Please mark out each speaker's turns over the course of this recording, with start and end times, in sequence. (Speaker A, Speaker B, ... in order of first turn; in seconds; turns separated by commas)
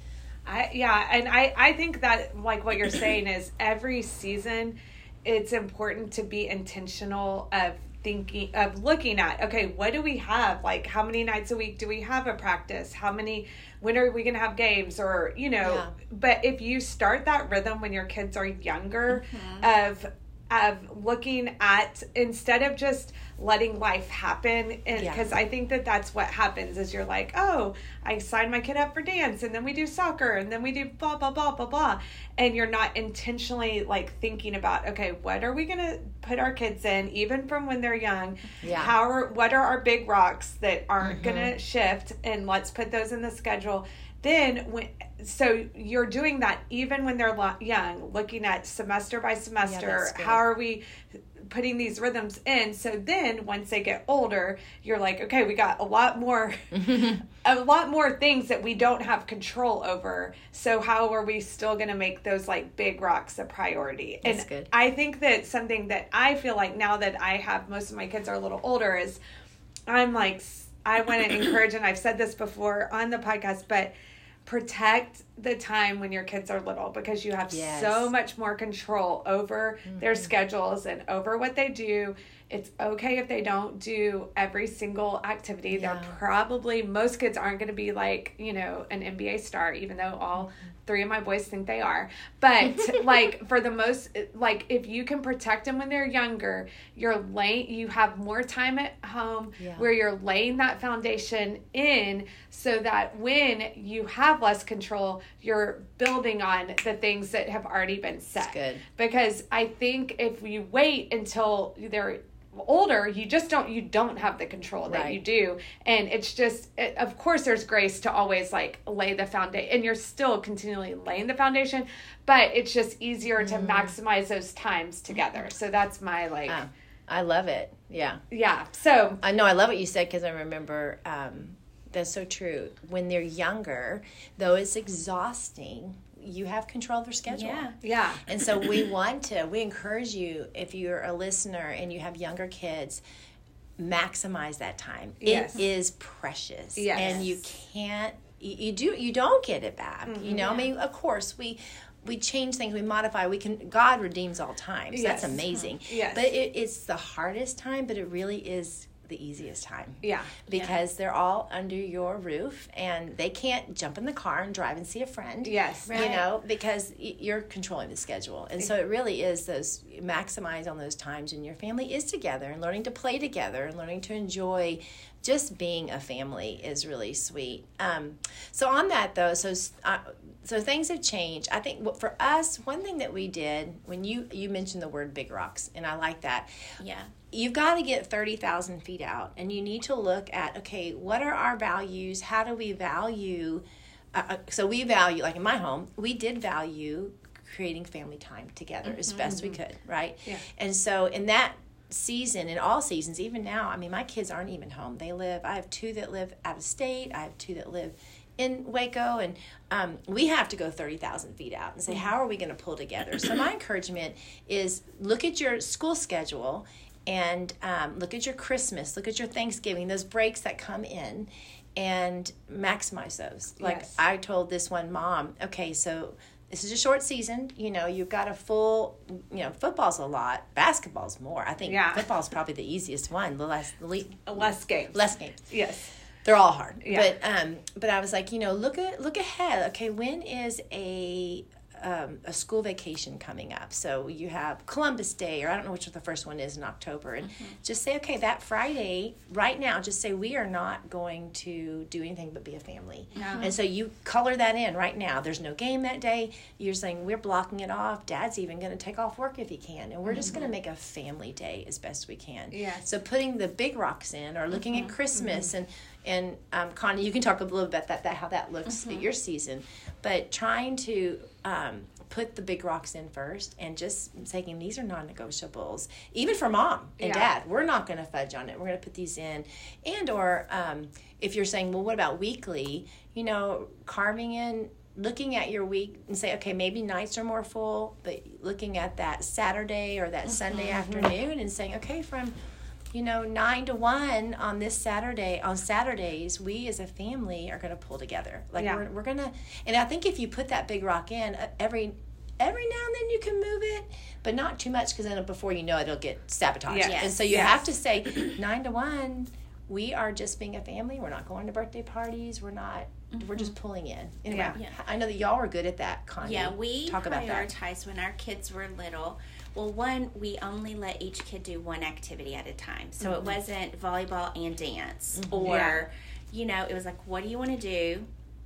Speaker A: 0.5-50.8, Speaker B: 15.6-15.9, Speaker C: 19.1-19.7, Speaker B: 24.9-25.4, Speaker B: 38.6-39.0, Speaker B: 41.0-41.6, Speaker B: 49.6-50.4, Speaker A: 51.4-69.2, Speaker B: 56.7-57.2, Speaker B: 64.2-64.7, Speaker A: 69.9-73.9, Speaker A: 74.5-126.6, Speaker B: 77.5-78.1, Speaker B: 79.9-80.3, Speaker B: 85.7-86.2, Speaker B: 92.6-93.3, Speaker B: 99.6-99.9, Speaker B: 108.4-108.8, Speaker B: 114.9-115.2, Speaker B: 123.4-124.0, Speaker B: 126.5-128.2, Speaker A: 128.3-129.2, Speaker B: 129.2-137.7, Speaker C: 137.3-137.8, Speaker A: 137.8-138.2, Speaker B: 138.2-143.0, Speaker B: 143.8-186.5, Speaker A: 145.2-145.6, Speaker A: 146.8-147.3, Speaker C: 146.9-147.3, Speaker A: 150.1-150.7, Speaker A: 154.9-156.3, Speaker A: 160.0-160.3, Speaker C: 160.5-160.8, Speaker A: 165.4-166.2, Speaker C: 165.9-166.2, Speaker C: 186.8-187.1, Speaker B: 187.3-235.5, Speaker C: 198.8-199.3, Speaker A: 199.2-199.6, Speaker A: 223.6-224.0, Speaker A: 231.7-232.1, Speaker A: 234.3-235.0, Speaker A: 235.5-235.9, Speaker B: 236.2-292.3, Speaker A: 236.8-237.1, Speaker A: 253.2-253.5, Speaker C: 253.2-253.5, Speaker A: 260.1-260.4, Speaker A: 262.5-262.9, Speaker A: 265.1-265.5, Speaker A: 277.0-277.3, Speaker A: 290.7-291.1, Speaker B: 292.9-317.5, Speaker A: 298.6-298.8, Speaker A: 306.7-307.6, Speaker C: 306.8-307.3, Speaker C: 313.1-313.5, Speaker A: 314.3-314.6, Speaker C: 316.2-328.1, Speaker B: 325.2-325.7, Speaker A: 325.4-325.8